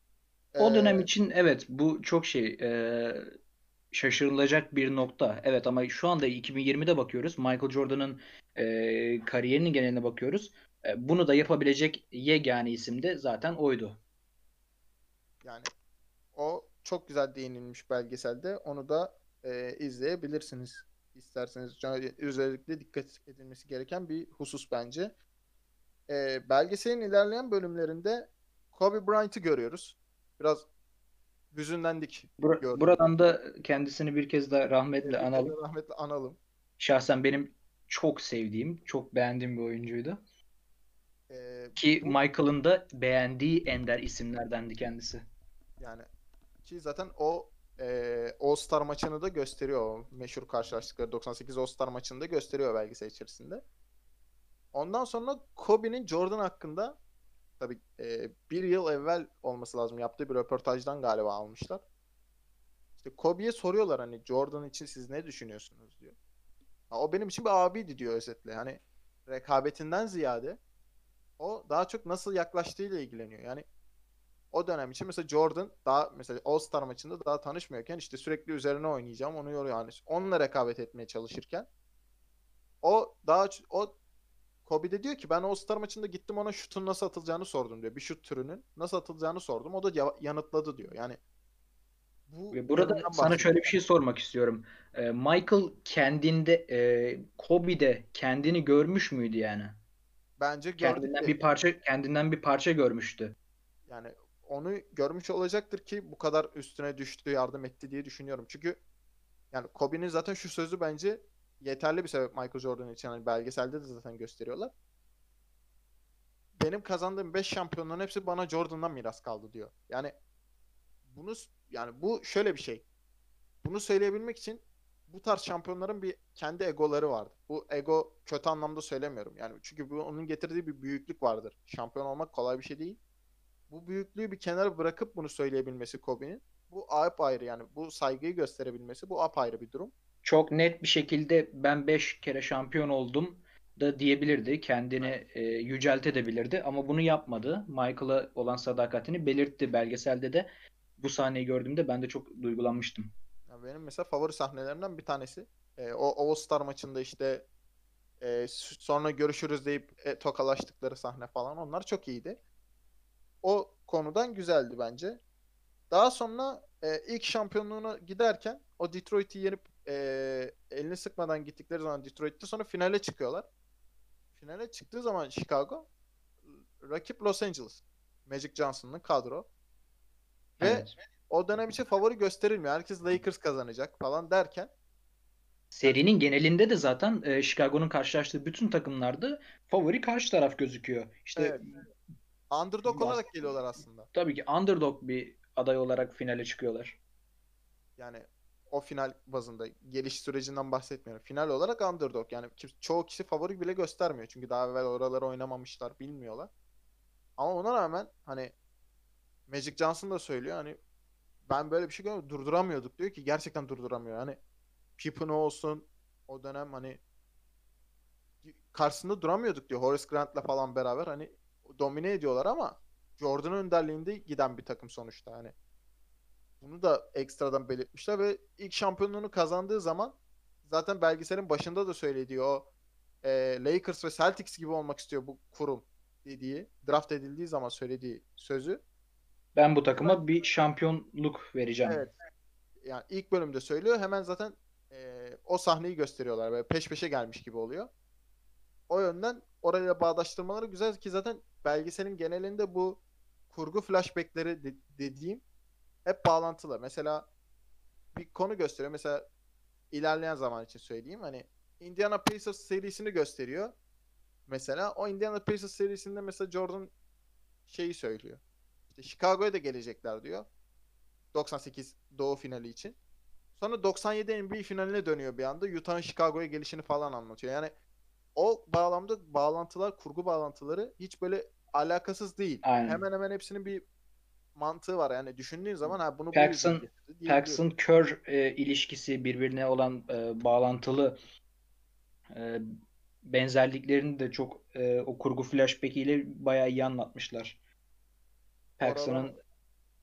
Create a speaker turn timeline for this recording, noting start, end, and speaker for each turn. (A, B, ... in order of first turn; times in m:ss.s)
0:00.5-0:01.1 A
0:00.6-0:03.3 B
0:03.9-0:14.0 B
0:15.4-0:15.7 A
0:16.4-0:25.2 A
0:26.1-0:30.7 A
0:31.5-0:33.0 A
0:32.4-0:35.5 B
0:35.0-0:36.4 A
0:36.8-0:40.2 B
0:41.3-0:42.2 A
0:41.8-0:45.2 B
0:45.8-0:46.1 A
0:46.6-0:53.6 A
0:54.7-0:57.0 A
0:57.6-1:01.8 A
1:03.0-1:06.2 A
1:06.9-1:10.6 A
1:11.4-1:13.6 A
1:14.5-1:21.7 A
1:22.8-1:24.0 A
1:24.7-1:31.2 A
1:32.3-1:33.6 A
1:32.5-1:39.8 B
1:40.4-1:41.5 A
1:40.8-1:43.4 B
1:43.9-1:48.8 A
1:49.5-1:54.7 A
1:56.6-2:00.2 A
2:01.1-2:02.8 A
2:03.6-2:13.0 A
2:13.7-2:19.9 A
2:20.2-2:30.5 B
2:31.0-2:33.1 B
2:33.5-2:37.5 A
2:38.2-2:42.4 A
2:43.4-2:45.2 A
2:45.9-2:53.5 A
2:54.4-2:55.9 A
2:56.5-2:59.5 A
3:00.6-3:00.9 B
3:00.6-3:04.7 A
3:05.7-3:11.8 B
3:11.4-3:11.6 A
3:12.5-3:14.1 A
3:12.9-3:13.2 B
3:14.1-3:17.0 B
3:18.0-3:26.5 A
3:27.4-3:28.5 A
3:29.5-3:30.8 A
3:31.5-3:34.4 A
3:35.0-3:37.0 A
3:38.4-3:45.5 A
3:46.6-3:52.7 A
3:53.2-3:58.8 A
3:59.6-4:02.0 B
4:01.9-4:02.1 A
4:02.8-4:07.9 A
4:08.9-4:15.4 A
4:16.1-4:17.3 A
4:18.1-4:19.3 A
4:19.9-4:23.8 A
4:24.5-4:26.9 A
4:27.7-4:30.5 A
4:31.3-4:33.0 A
4:33.6-4:37.7 A
4:38.4-4:43.8 A
4:42.6-4:43.0 B
4:44.6-4:47.6 A
4:45.8-4:51.2 B
4:52.3-4:52.6 B
4:53.2-4:57.6 B
4:58.8-4:59.4 B
4:58.8-4:59.4 A